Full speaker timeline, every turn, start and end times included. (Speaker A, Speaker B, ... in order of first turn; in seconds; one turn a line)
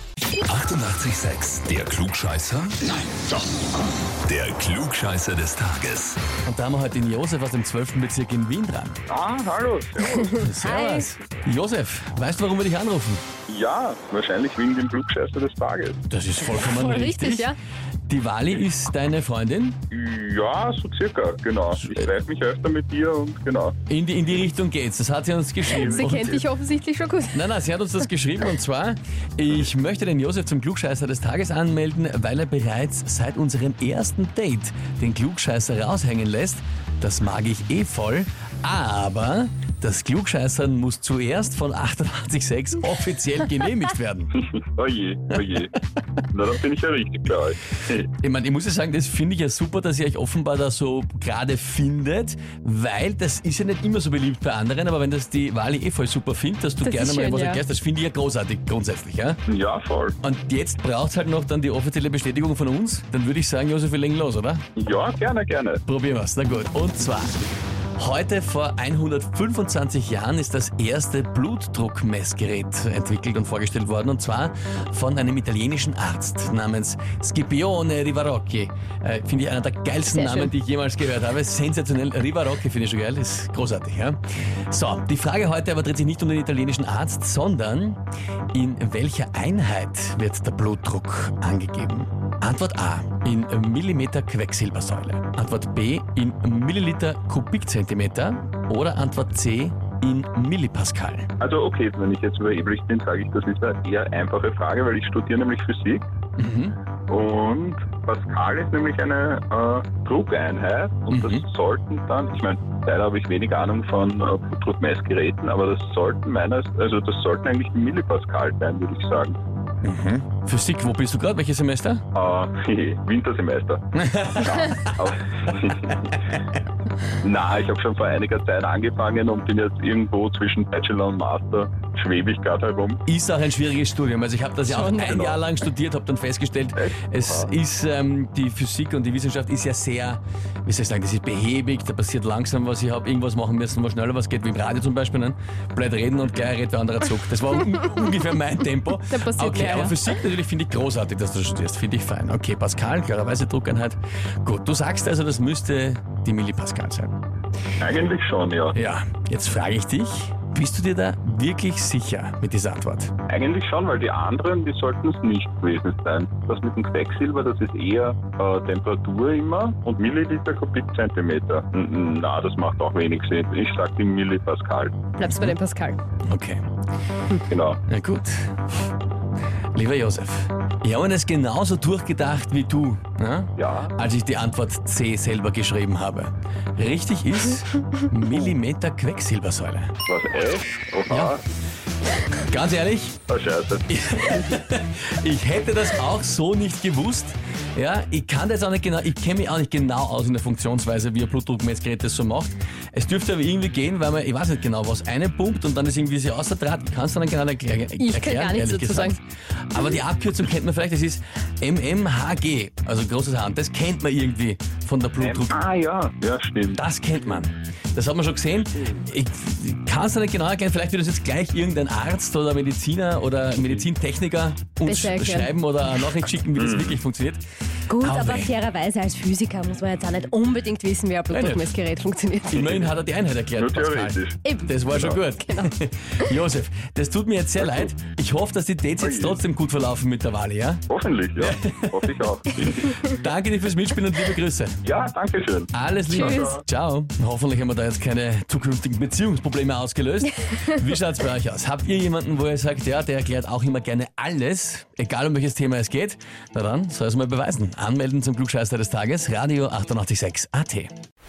Speaker A: 0.4-2.8
Speaker A: 4.2-6.2
Speaker B: 6.5-9.0
Speaker C: 9.1-10.5
Speaker D: 10.2-11.1
Speaker B: 10.4-13.2
Speaker C: 13.5-16.0
Speaker B: 16.1-17.5
Speaker D: 16.5-17.6
Speaker B: 18.1-19.8
Speaker C: 19.9-23.8
Speaker B: 21.8-22.1
Speaker B: 23.9-26.4
Speaker C: 25.7-26.5
Speaker D: 25.7-27.5
Speaker B: 27.3-44.4
Speaker C: 44.4-45.7
Speaker B: 45.3-45.6
Speaker C: 46.3-48.1
Speaker B: 48.1-59.4
Speaker D: 56.8-57.6
Speaker C: 59.5-60.1
Speaker B: 60.2-64.7
Speaker C: 64.8-65.8
Speaker B: 65.9-67.4
Speaker B: 68.0-84.2
Speaker D: 80.1-80.5
Speaker B: 84.7-88.0
Speaker B: 88.5-101.3
Speaker C: 101.4-106.0
Speaker B: 106.4-106.8
Speaker C: 107.1-119.4
Speaker B: 111.1-111.4
Speaker B: 119.8-122.0
Speaker C: 122.1-126.1
Speaker B: 124.0-125.0
Speaker B: 126.0-126.4
Speaker C: 127.2-133.0
Speaker B: 133.1-157.1
Speaker C: 134.7-135.4
Speaker D: 134.7-135.2
Speaker C: 136.8-137.5
Speaker D: 149.1-150.0
Speaker C: 157.8-158.8
Speaker B: 158.7-163.1
Speaker C: 163.3-174.9
Speaker D: 175.2-176.0
Speaker B: 175.2-175.6
Speaker B: 176.3-176.6
Speaker C: 177.5-177.8
Speaker B: 177.9-178.7
Speaker B: 179.7-189.9
Speaker C: 183.6-183.9
Speaker C: 188.3-188.5
Speaker C: 190.1-191.4
Speaker B: 191.1-191.4
Speaker B: 192.4-193.2
Speaker C: 193.3-194.4
Speaker B: 193.9-215.6
Speaker D: 208.0-209.2
Speaker C: 215.2-216.8
Speaker B: 216.8-227.4
Speaker D: 224.9-225.5
Speaker C: 226.6-227.0
Speaker D: 227.9-232.5
Speaker B: 228.0-228.5
Speaker B: 231.3-231.7
Speaker B: 232.5-240.8
Speaker C: 232.5-232.9
Speaker C: 233.6-235.2
Speaker D: 234.4-234.8
Speaker D: 235.4-235.7
Speaker C: 237.6-237.9
Speaker C: 239.0-239.4
Speaker C: 240.9-243.0
Speaker B: 241.4-244.8
Speaker C: 244.8-246.6
Speaker B: 245.7-260.9
Speaker D: 246.1-246.6